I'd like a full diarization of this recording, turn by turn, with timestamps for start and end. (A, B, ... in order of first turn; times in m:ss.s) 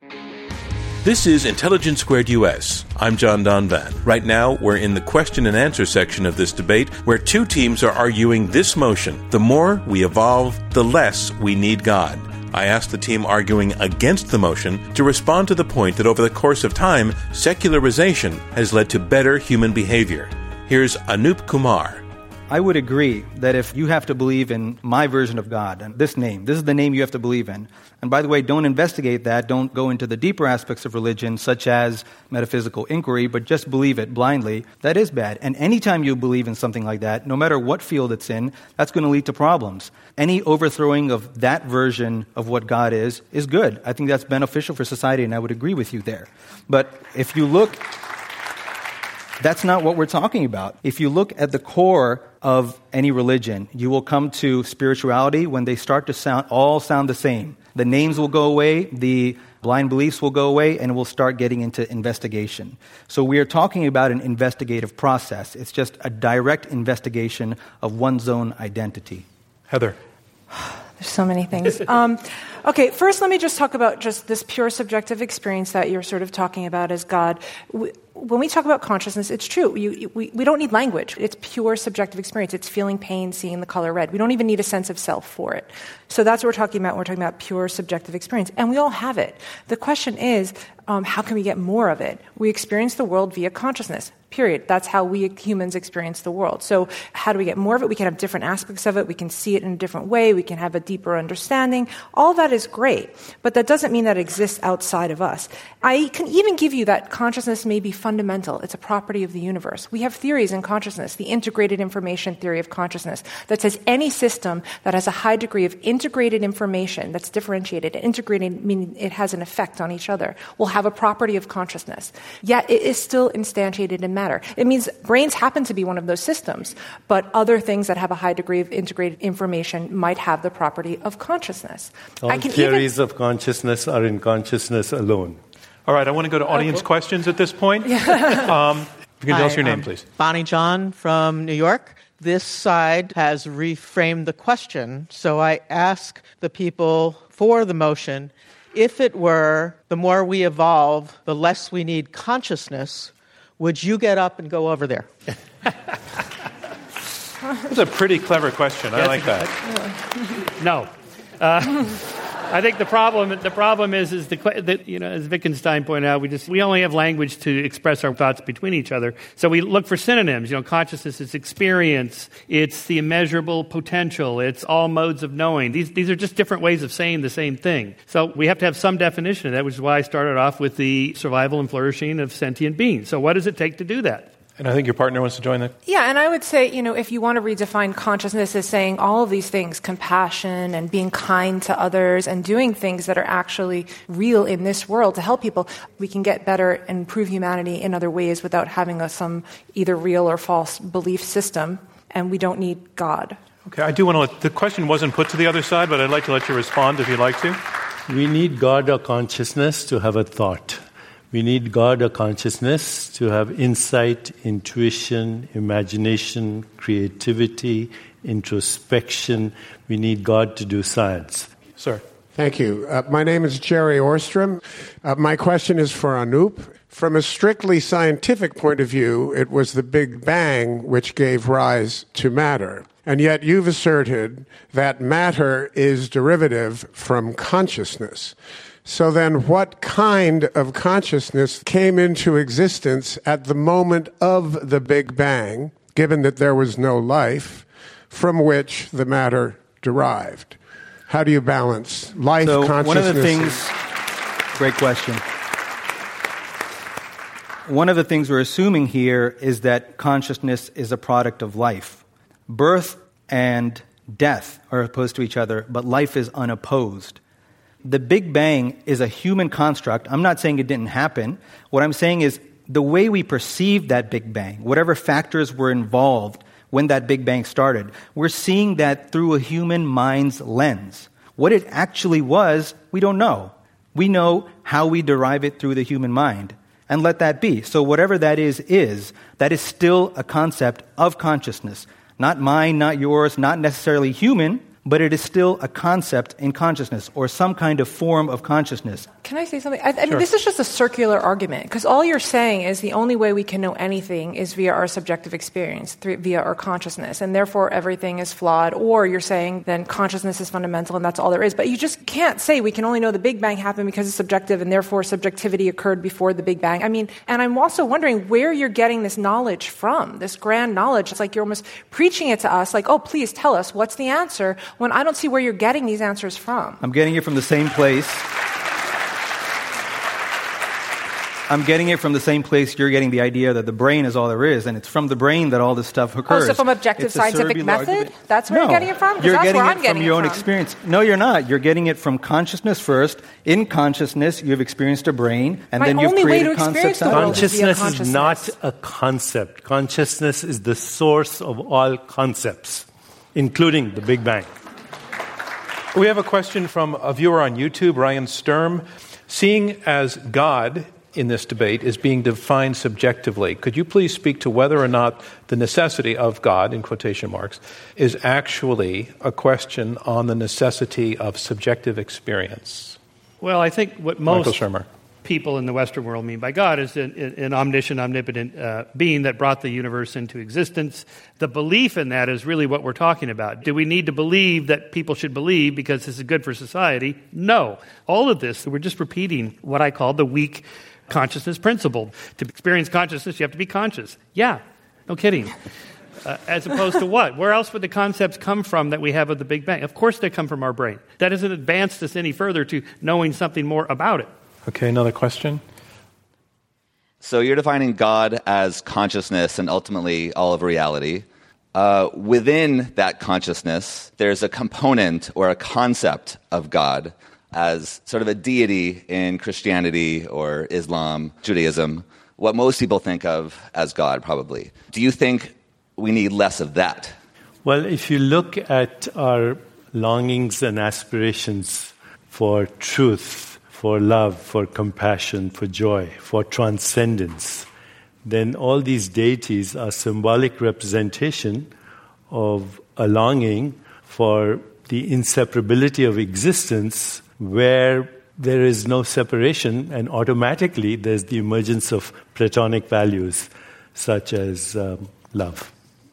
0:01.0-0:22.0 A
0:22.5-0:47.9 B
0:49.4-1:09.2 B
1:09.7-1:10.0 C
1:10.5-2:12.9 D
2:12.2-2:15.4 E
2:15.8-2:20.0 C
2:19.3-2:35.1 F
2:37.7-2:39.5 C
2:39.0-2:39.5 G
2:40.4-3:04.3 G
3:04.6-3:05.7 C
3:05.8-3:23.4 D
3:23.6-3:27.6 C
3:28.1-3:30.8 E
3:31.3-3:41.5 E
3:41.8-3:42.0 C
3:42.3-4:10.6 H
4:11.1-4:13.6 H
4:12.4-4:13.8 B
4:14.5-4:15.2 B
4:17.6-4:27.2 B
4:27.8-4:59.1 B
4:59.2-5:26.8 D
5:26.8-5:28.3 B
5:31.5-5:47.5 B
5:36.3-5:40.4 D
5:45.8-5:48.5 D
5:47.1-5:54.5 E
5:55.9-6:13.0 C
6:13.4-6:14.6 G
6:14.2-6:14.8 C
6:15.2-6:35.5 G
6:36.2-6:44.3 G
6:44.7-6:45.6 C
6:47.2-7:07.1 I
7:07.6-7:17.7 E
7:18.2-7:21.7 E
7:22.3-7:35.7 E